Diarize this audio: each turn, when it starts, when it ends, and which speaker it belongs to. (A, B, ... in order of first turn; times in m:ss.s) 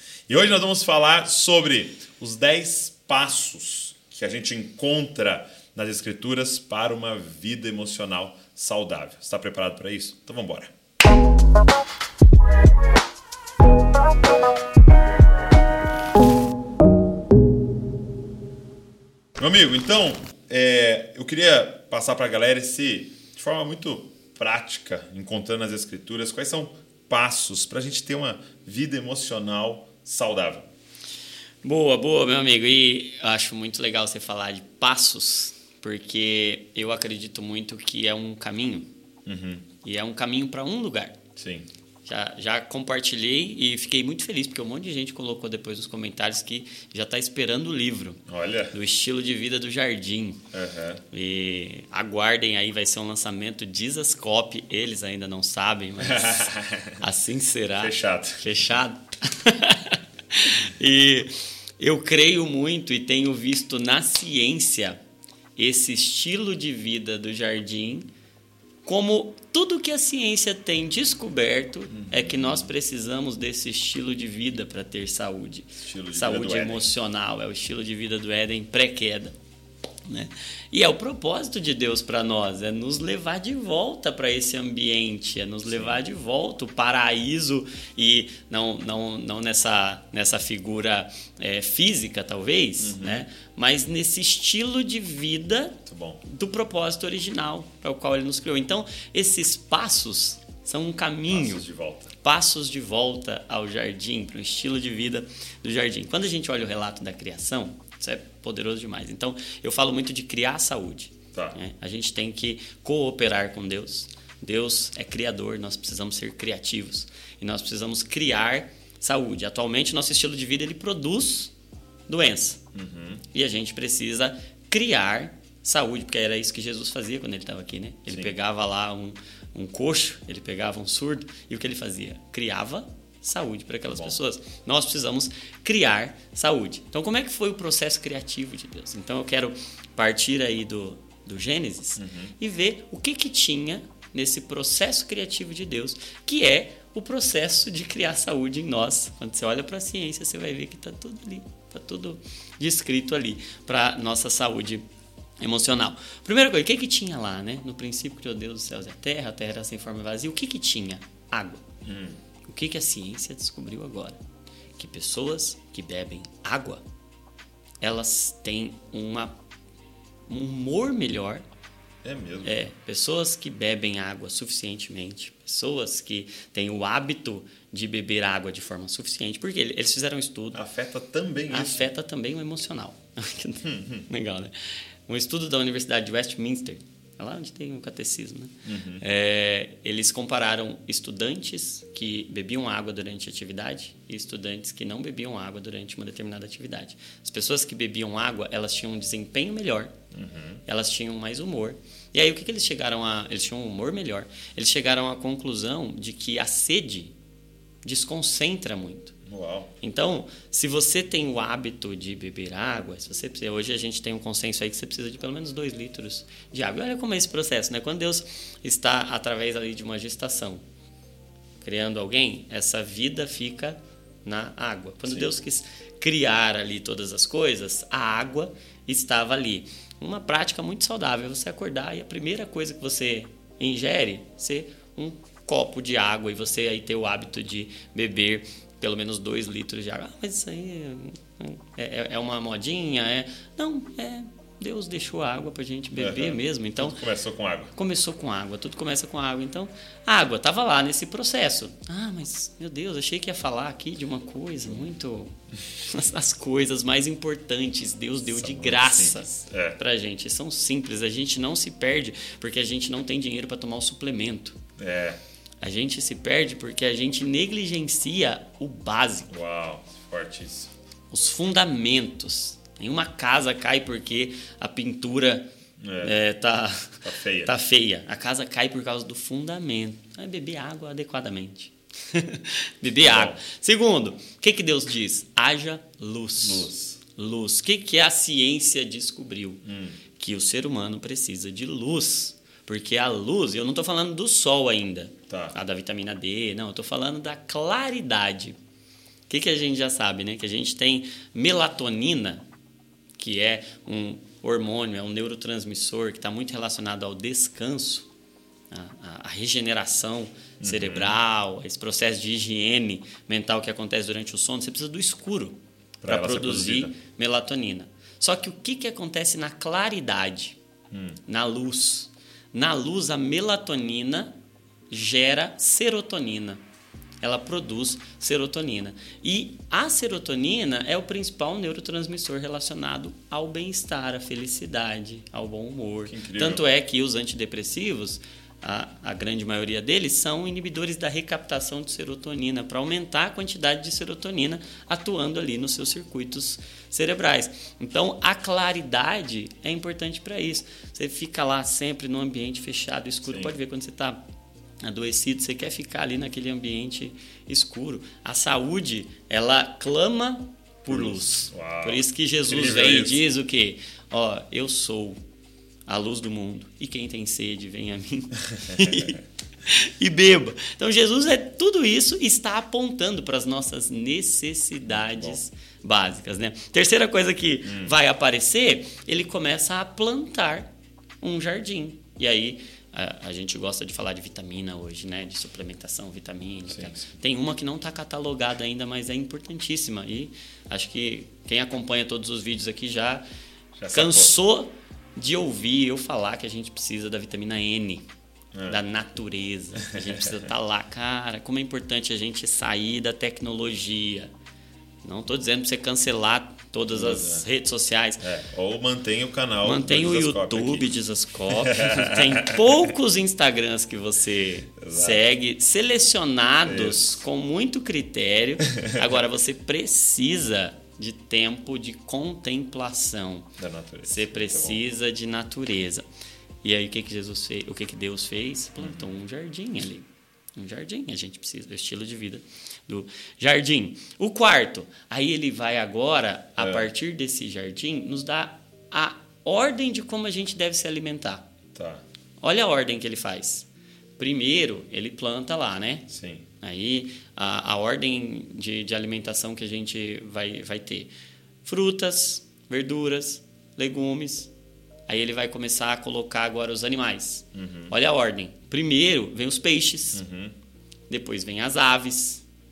0:00.3-0:10.7 A
0:19.4-0:30.7 A
0:31.6-0:38.9 B
0:39.2-0:39.7 A
0:39.8-0:41.2 B
0:41.4-0:41.7 A
0:42.0-0:50.4 B
0:48.3-0:48.7 A
0:50.5-0:51.0 A
0:51.1-1:05.0 B
0:56.0-0:57.0 A
0:57.8-0:58.5 A
1:05.6-1:08.1 B
1:08.8-1:19.3 B
1:11.9-1:12.7 A
1:15.8-1:16.9 A
1:20.0-1:41.6 B
1:25.6-1:26.0 A
1:32.8-1:33.2 A
1:35.8-1:36.2 A
1:41.3-1:42.1 A
1:42.2-2:01.5 B
2:02.1-2:02.6 B
2:02.7-2:03.2 A
2:03.3-2:34.8 B
2:08.1-2:08.3 A
2:13.9-2:14.2 A
2:22.0-2:22.3 A
2:35.4-2:41.6 B
2:41.8-2:42.2 A
2:42.4-2:44.2 B
2:44.8-2:46.8 B
2:47.8-2:49.4 B
2:50.3-2:51.4 B
2:52.0-2:52.7 A
2:52.4-3:00.6 B
3:00.5-3:01.9 A
3:01.5-3:04.5 B
3:03.6-3:04.0 A
3:05.1-3:19.9 B
3:08.6-3:09.0 A
3:20.1-3:20.6 A
3:20.7-3:27.1 B
3:27.8-3:29.1 B
3:29.2-3:29.7 A
3:29.8-3:40.6 B
3:41.6-4:07.0 B
4:06.0-4:07.7 A
4:07.7-4:24.6 B
4:18.3-4:19.8 A
4:24.8-4:25.2 A
4:25.6-4:29.3 B
4:29.3-4:30.7 A
4:31.1-4:35.5 B
4:35.8-4:36.2 A
4:36.0-4:49.6 B
4:37.0-4:37.6 A
4:43.0-4:43.4 A
4:46.4-4:47.0 A
4:49.6-4:50.0 A
4:50.2-4:58.6 B
4:55.3-4:55.6 A
4:59.3-5:02.4 B
5:03.2-5:08.1 B
5:08.7-5:20.6 B
5:10.6-5:11.2 A
5:16.0-5:17.0 A
5:20.9-5:21.2 A
5:21.3-5:24.3 B
5:24.9-5:26.6 B
5:27.2-5:54.2 B
5:36.0-5:36.7 A
5:53.2-5:53.5 A
5:54.8-6:05.2 B
6:00.9-6:03.2 A
6:05.8-6:20.7 B
6:14.8-6:15.4 A
6:17.6-6:17.9 A
6:21.2-6:33.2 B
6:26.7-6:27.2 A
6:33.8-6:34.4 A
6:33.9-6:38.1 B
6:38.5-6:38.8 A
6:38.6-6:44.3 B
6:39.9-6:40.4 A
6:45.0-6:48.2 B
6:46.9-6:47.4 A
6:48.2-6:50.9 A
6:49.6-7:03.5 B
6:51.6-6:52.6 A
6:54.8-6:55.2 A
6:56.6-6:57.2 A
7:03.6-7:04.8 A
7:04.0-7:06.0 B
7:06.6-7:21.4 B
7:08.8-7:09.2 A
7:16.6-7:16.9 A
7:21.7-7:22.0 A
7:22.4-7:26.1 B
7:26.1-7:26.4 A
7:26.6-7:31.1 B
7:31.6-7:34.5 B
7:35.1-7:40.2 B
7:37.5-7:38.0 A
7:40.1-7:40.6 A
7:41.1-7:42.4 B